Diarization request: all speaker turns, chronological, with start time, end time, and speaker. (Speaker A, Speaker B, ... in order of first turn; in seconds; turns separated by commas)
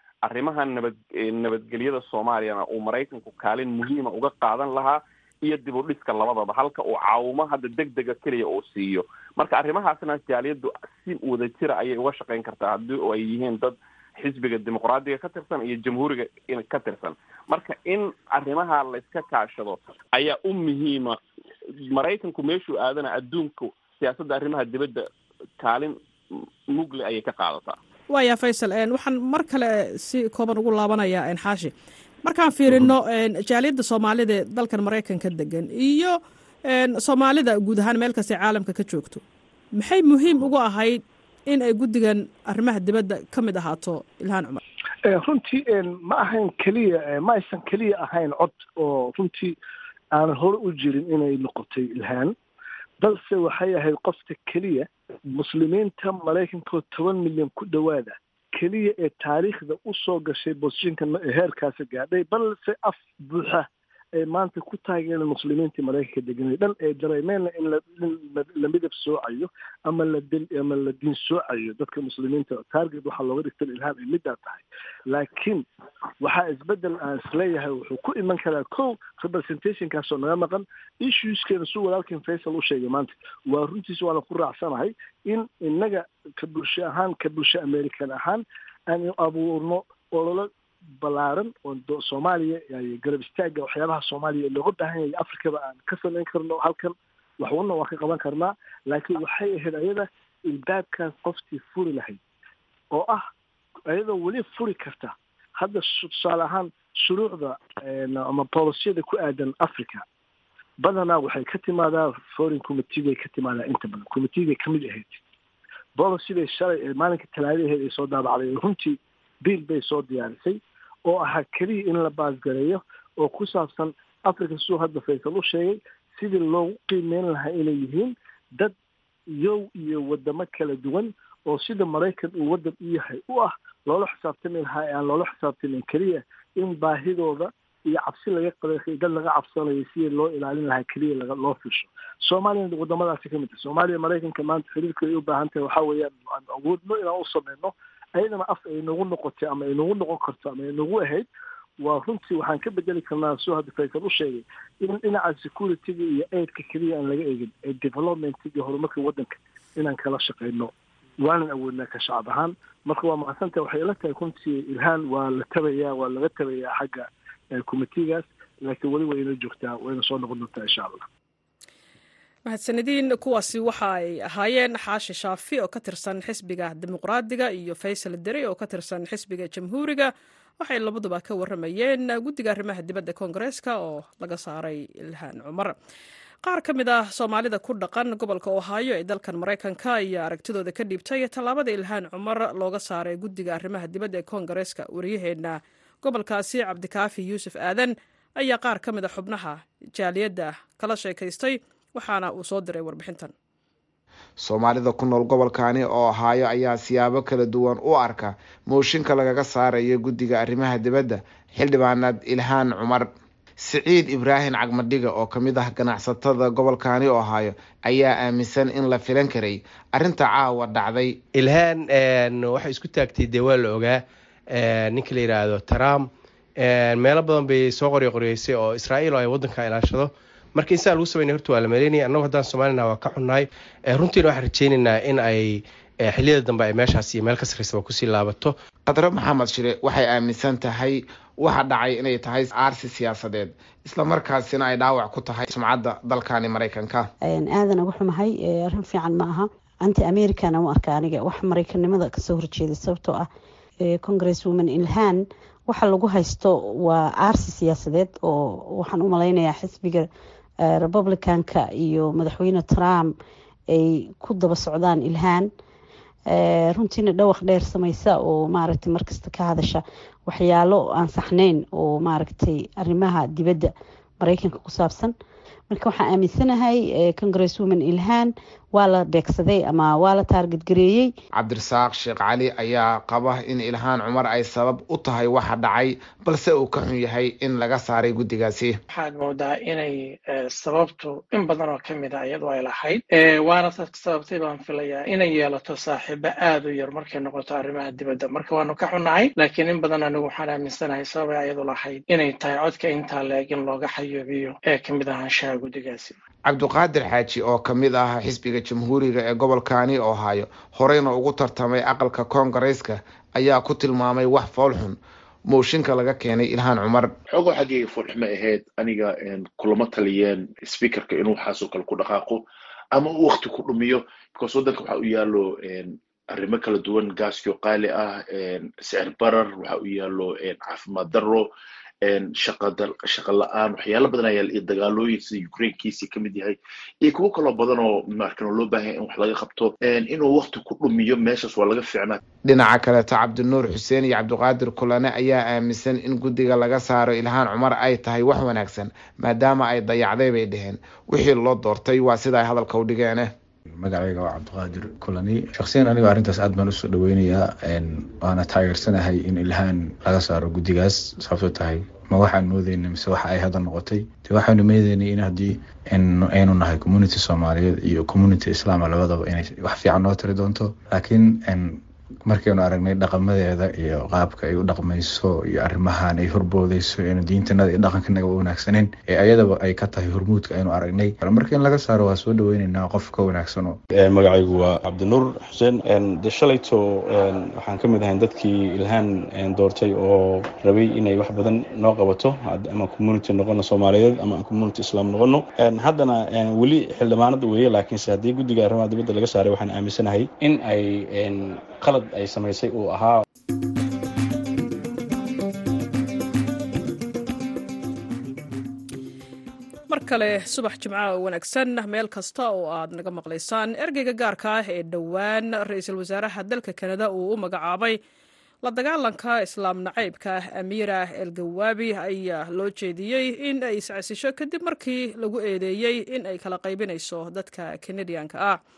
Speaker A: 0.2-21.2, Speaker A: 21.9-25.0, Speaker A: 25.6-25.9, Speaker A: 26.7-27.8, Speaker B: 28.1-31.7, Speaker B: 32.2-39.2, Speaker B: 39.8-44.6, Speaker C: 45.1-49.5, Speaker C: 50.1-52.3, Speaker C: 53.0-75.6, Speaker C: 76.2-102.2, Speaker C: 102.9-103.2, Speaker C: 103.9-110.0, Speaker C: 110.8-115.2, Speaker C: 116.0-128.7, Speaker C: 129.3-151.3, Speaker C: 151.8-171.0, Speaker B: 172.4-185.7, Speaker B: 186.4-203.3, Speaker D: 204.4-213.1, Speaker D: 213.6-221.2, Speaker E: 221.3-238.5, Speaker D: 238.9-247.1, Speaker F: 247.2-253.3, Speaker F: 253.8-260.1, Speaker F: 260.6-263.1, Speaker F: 263.7-265.5, Speaker F: 266.3-275.1, Speaker F: 275.7-281.1, Speaker D: 281.4-288.8, Speaker G: 288.9-306.2, Speaker D: 306.5-317.1, Speaker H: 317.3-322.4, Speaker H: 322.9-331.5, Speaker H: 332.0-342.2, Speaker D: 342.4-353.3, Speaker I: 353.8-383.8, Speaker J: 383.9-403.2, Speaker B: 409.9-418.0, Speaker B: 418.6-428.6